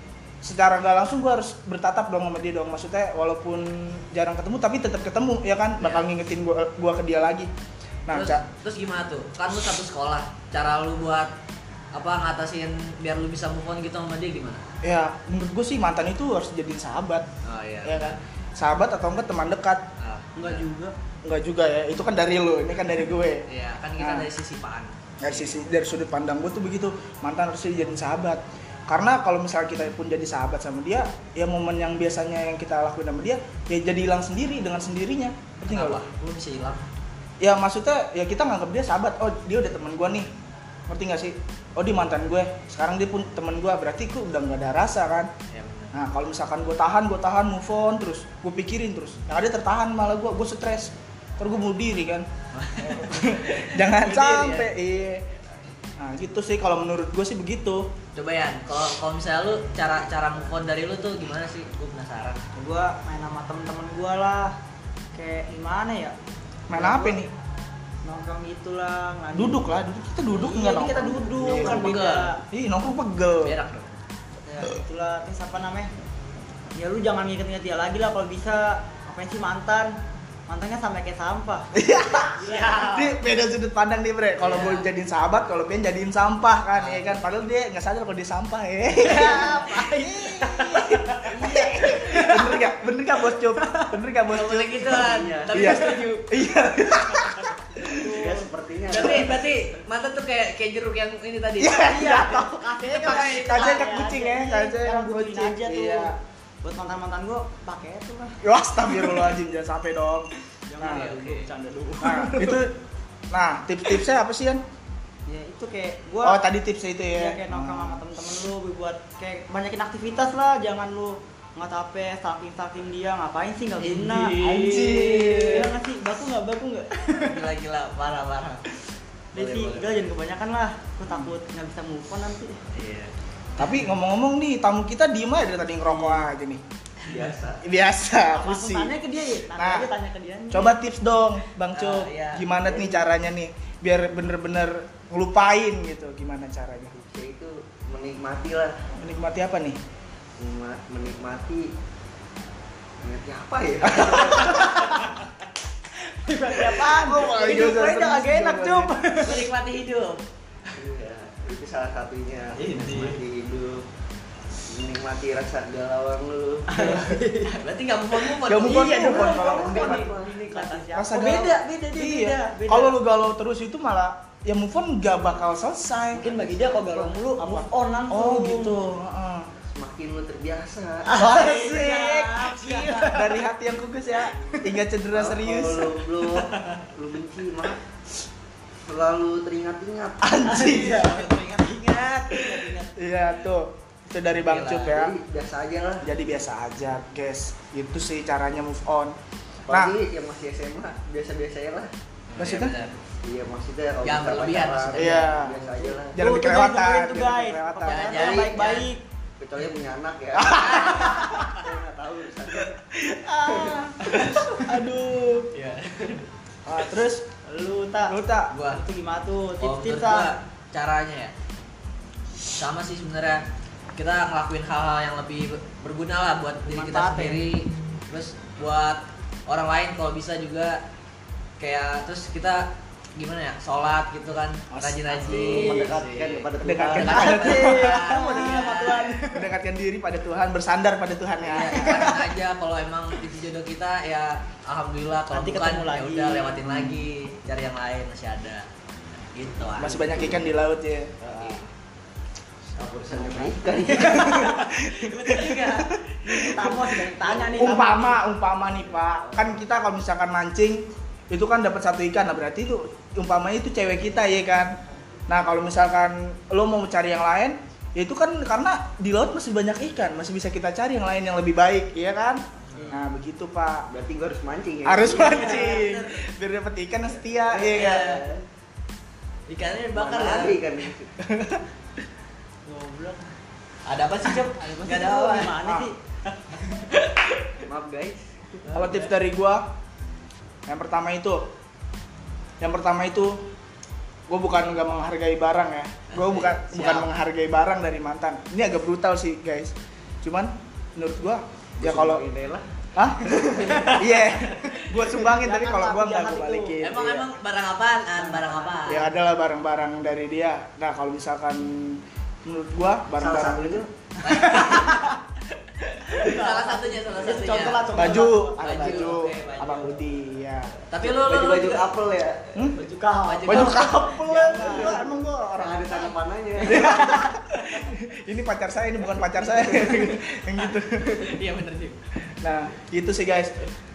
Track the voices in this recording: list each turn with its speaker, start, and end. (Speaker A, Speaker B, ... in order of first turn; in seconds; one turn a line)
Speaker A: 0.4-7.5
Speaker B: 5.8-6.1
Speaker A: 8.1-8.4
Speaker B: 8.1-11.3
Speaker B: 11.9-14.6
Speaker A: 14.8-17.3
Speaker B: 17.4-18.2
Speaker A: 17.8-19.8
Speaker B: 20.0-20.6
Speaker C: 20.4-20.9
Speaker A: 21.2-23.4
Speaker B: 23.5-25.6
Speaker A: 24.0-24.3
Speaker A: 25.2-36.0
Speaker B: 35.6-36.8
Speaker A: 37.4-40.3
Speaker A: 40.9-45.3
Speaker B: 45.5-45.9
Speaker A: 45.9-52.2
Speaker B: 52.5-54.7
Speaker A: 52.8-55.2
Speaker A: 56.0-57.9
Speaker B: 58.1-62.4
Speaker C: 62.6-64.5
Speaker C: 65.1-66.1
Speaker A: 66.7-67.3
Speaker C: 66.7-67.2
Speaker C: 68.0-69.6
Speaker A: 69.3-71.9
Speaker C: 70.3-72.4
Speaker B: 71.5-72.3
Speaker A: 72.5-73.5
Speaker B: 73.4-74.0
Speaker C: 74.4-75.9
Speaker C: 76.7-79.9
Speaker C: 80.5-83.0
Speaker A: 81.7-98.0
Speaker B: 82.4-83.1
Speaker B: 84.4-84.9
Speaker B: 86.7-87.2
Speaker C: 88.9-92.7
Speaker C: 93.3-93.9
Speaker B: 94.3-96.2
Speaker D: 94.9-95.7
Speaker C: 95.6-96.1
Speaker C: 97.9-98.5
Speaker D: 98.1-99.5
Speaker B: 98.9-101.9
Speaker A: 101.6-106.1
Speaker C: 101.8-109.3
Speaker B: 102.9-103.8
Speaker A: 108.4-111.1
Speaker C: 110.7-112.6
Speaker B: 110.8-111.5
Speaker A: 112.0-112.7
Speaker A: 113.3-114.6
Speaker C: 115.2-116.4
Speaker A: 116.2-118.0
Speaker C: 117.1-127.4
Speaker B: 123.8-125.5
Speaker A: 124.4-125.7
Speaker B: 127.1-128.6
Speaker C: 129.3-132.6
Speaker D: 129.3-130.0
Speaker B: 132.7-133.9
Speaker A: 133.6-136.6
Speaker C: 135.8-136.3
Speaker D: 137.1-137.6
Speaker A: 137.6-138.9
Speaker C: 138.3-140.8
Speaker A: 139.5-139.9
Speaker A: 140.5-146.9
Speaker B: 141.7-142.5
Speaker D: 142.7-143.0
Speaker D: 146.9-148.7
Speaker A: 149.0-149.8
Speaker D: 150.4-151.7
Speaker D: 153.0-154.9
Speaker A: 154.0-154.7
Speaker C: 156.2-159.4
Speaker A: 156.7-159.0
Speaker B: 159.2-160.2
Speaker D: 160.8-163.8
Speaker B: 162.6-163.2
Speaker D: 164.7-167.0
Speaker C: 166.7-167.5
Speaker B: 167.4-170.1
Speaker A: 168.4-169.9
Speaker C: 168.6-172.9
Speaker D: 169.1-170.8
Speaker A: 170.9-179.5
Speaker C: 176.1-178.8
Speaker D: 179.6-181.1
Speaker C: 181.1-183.3
Speaker A: 181.2-186.0
Speaker B: 182.5-183.1
Speaker D: 185.1-187.8
Speaker D: 188.9-190.5
Speaker A: 190.2-191.1
Speaker C: 190.4-192.9
Speaker A: 192.3-195.2
Speaker B: 194.4-195.0
Speaker D: 194.9-196.0
Speaker A: 196.0-199.1
Speaker D: 199.7-201.9
Speaker A: 199.7-199.9
Speaker B: 202.3-203.0
Speaker A: 202.4-202.7
Speaker D: 203.2-206.2
Speaker B: 204.0-205.5
Speaker A: 204.9-208.1
Speaker C: 206.2-209.0
Speaker B: 207.8-208.9
Speaker D: 208.1-208.8
Speaker D: 209.4-212.8
Speaker A: 210.3-211.6
Speaker B: 210.5-211.5
Speaker A: 212.7-215.5
Speaker B: 215.5-216.3
Speaker A: 216.7-217.2
Speaker C: 217.4-218.1
Speaker A: 218.1-218.5
Speaker B: 218.5-218.8
Speaker C: 218.7-220.3
Speaker B: 219.6-221.3
Speaker B: 222.5-223.4
Speaker B: 223.9-230.8
Speaker C: 226.7-227.4
Speaker B: 231.6-239.1
Speaker A: 234.7-235.6
Speaker D: 235.2-237.6
Speaker C: 235.3-235.8
Speaker A: 236.6-238.6
Speaker C: 237.2-239.4
Speaker A: 239.2-242.2
Speaker B: 241.4-248.7
Speaker C: 241.8-242.2
Speaker C: 245.3-246.6
Speaker B: 249.3-250.2
Speaker A: 249.8-251.1
Speaker D: 250.0-250.4
Speaker D: 251.2-251.7
Speaker B: 251.2-251.6
Speaker D: 252.8-254.5
Speaker B: 253.1-253.5
Speaker C: 253.8-258.2
Speaker A: 254.0-264.8
Speaker D: 258.9-259.6
Speaker A: 265.3-273.9
Speaker D: 273.9-275.7
Speaker A: 274.8-278.1
Speaker C: 275.1-276.2
Speaker D: 277.4-278.4
Speaker B: 277.7-278.2
Speaker B: 279.5-280.6
Speaker D: 279.9-281.1
Speaker A: 281.2-281.6
Speaker C: 282.6-283.2
Speaker B: 283.9-285.6
Speaker C: 284.6-286.9
Speaker A: 285.6-285.9
Speaker B: 286.9-287.5
Speaker D: 287.6-288.8
Speaker B: 288.7-289.1
Speaker A: 288.7-289.6
Speaker A: 290.7-291.4
Speaker A: 292.6-293.4
Speaker A: 294.3-302.2
Speaker B: 296.1-297.1
Speaker D: 301.8-302.6
Speaker A: 302.9-307.3
Speaker D: 303.2-304.1
Speaker C: 303.6-303.9
Speaker C: 305.1-306.8
Speaker B: 306.8-309.1
Speaker C: 308.1-309.1
Speaker A: 308.9-313.8
Speaker D: 313.1-313.9
Speaker B: 314.2-315.1
Speaker C: 314.2-315.2
Speaker B: 316.0-319.9
Speaker C: 316.1-319.2
Speaker A: 317.9-320.8
Speaker B: 320.9-321.9
Speaker D: 321.0-322.8
Speaker C: 322.8-325.1
Speaker B: 323.3-324.1
Speaker A: 323.5-331.3
Speaker D: 324.5-327.3
Speaker B: 329.8-330.0
Speaker B: 330.5-332.0
Speaker A: 332.4-333.7